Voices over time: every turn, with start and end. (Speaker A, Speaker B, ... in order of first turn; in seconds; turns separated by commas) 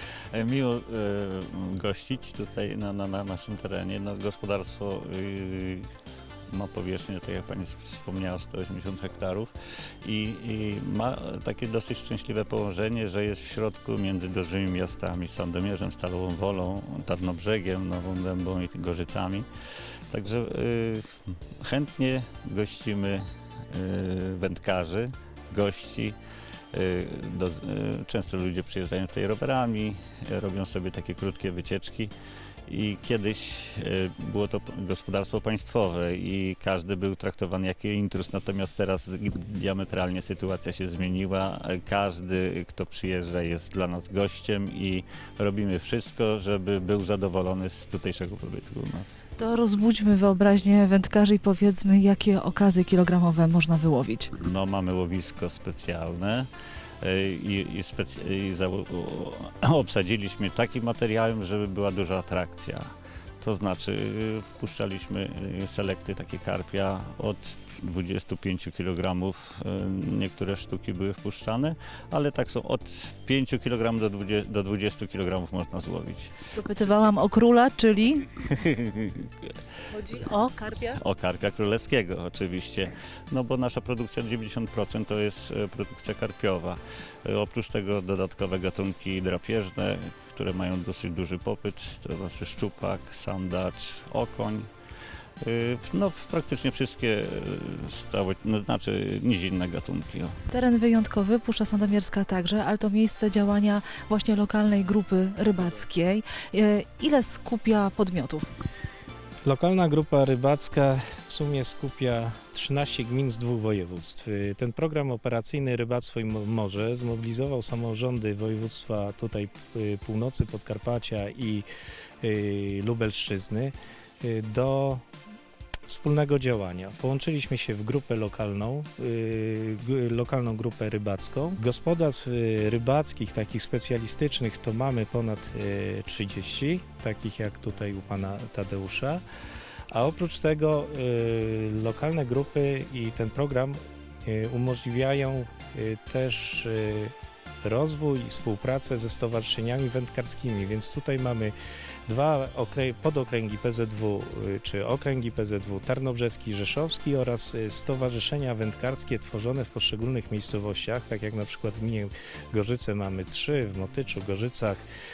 Speaker A: 0.3-5.9, Speaker A: 6.5-9.5, Speaker A: 10.0-19.5, Speaker A: 20.1-26.2, Speaker A: 26.7-32.1, Speaker A: 32.7-49.2, Speaker B: 49.4-54.3, Speaker A: 54.4-56.5, Speaker A: 57.0-76.3, Speaker B: 76.5-78.3, Speaker A: 78.4-79.5, Speaker B: 79.9-81.0, Speaker A: 80.9-94.7, Speaker A: 95.4-100.3, Speaker B: 100.5-108.5, Speaker C: 109.5-121.7, Speaker C: 122.2-125.0, Speaker C: 125.9-139.2, Speaker C: 139.9-151.5, Speaker C: 152.1-164.8